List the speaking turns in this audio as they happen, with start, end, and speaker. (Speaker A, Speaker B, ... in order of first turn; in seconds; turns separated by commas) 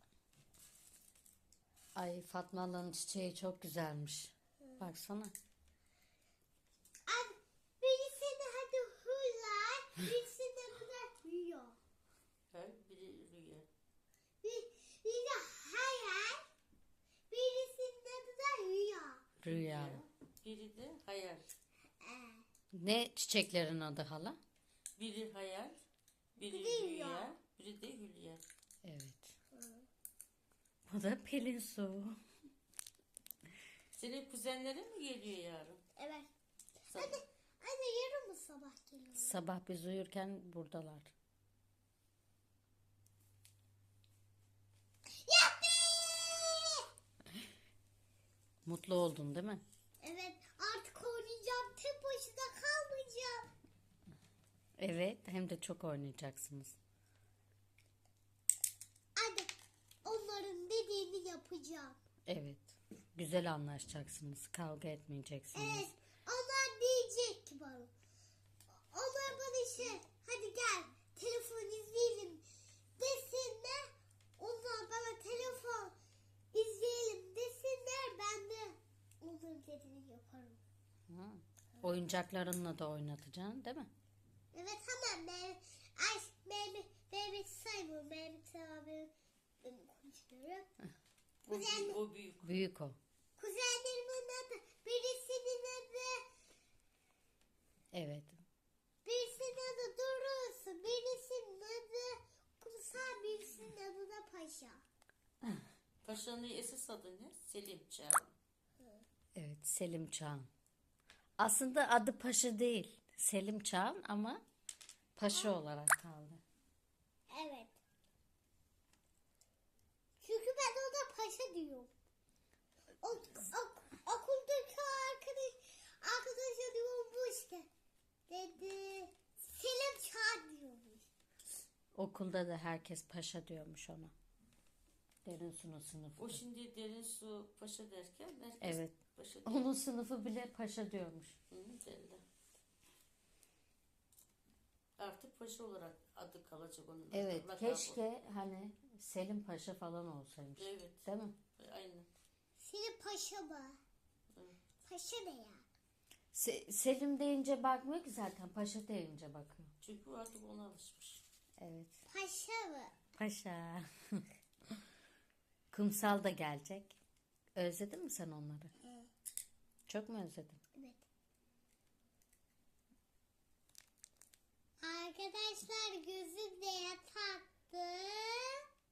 Speaker A: 1.9-5.3, Speaker B: 7.0-11.8, Speaker C: 12.5-13.7, Speaker B: 14.4-16.4, Speaker B: 17.3-19.2, Speaker A: 19.4-20.0, Speaker C: 19.4-21.5, Speaker B: 22.0-22.4, Speaker A: 22.7-24.4, Speaker C: 25.0-25.8, Speaker C: 26.4-28.4, Speaker B: 26.5-27.3, Speaker A: 28.8-29.3, Speaker B: 29.5-29.9, Speaker A: 30.9-32.2, Speaker C: 33.9-35.8, Speaker B: 36.0-36.3, Speaker C: 36.9-37.2, Speaker B: 36.9-39.4, Speaker A: 39.2-41.1, Speaker B: 45.2-46.9, Speaker A: 48.6-49.6, Speaker B: 50.0-53.5, Speaker A: 54.8-56.8, Speaker B: 59.1-59.5, Speaker B: 60.0-62.0, Speaker A: 62.3-65.9, Speaker B: 65.5-67.9, Speaker B: 68.9-72.4, Speaker B: 73.0-75.9, Speaker B: 76.5-80.6, Speaker A: 81.1-83.9, Speaker B: 84.5-90.7, Speaker C: 91.5-92.5, Speaker B: 91.5-92.0, Speaker A: 92.4-93.0, Speaker B: 93.4-96.2, Speaker A: 97.9-98.4, Speaker B: 99.0-104.8, Speaker C: 106.0-108.3, Speaker A: 109.3-110.5, Speaker A: 111.4-114.4, Speaker A: 115.2-116.4, Speaker B: 115.3-115.5, Speaker B: 117.3-117.8, Speaker B: 120.2-121.9, Speaker B: 123.0-127.7, Speaker B: 128.3-131.1, Speaker A: 131.9-134.1, Speaker A: 135.2-136.4, Speaker C: 136.2-139.7, Speaker A: 138.6-141.3, Speaker C: 141.5-142.2, Speaker C: 145.0-148.0, Speaker A: 147.1-151.4, Speaker C: 150.6-151.0, Speaker C: 151.6-152.1, Speaker B: 152.6-153.8, Speaker B: 154.8-155.6, Speaker A: 156.3-159.7, Speaker C: 159.8-161.2, Speaker A: 161.6-162.0, Speaker B: 162.1-162.9, Speaker A: 163.2-164.2, Speaker A: 165.7-167.0, Speaker A: 167.5-168.7, Speaker A: 169.9-170.6, Speaker B: 170.7-171.1, Speaker B: 174.8-178.6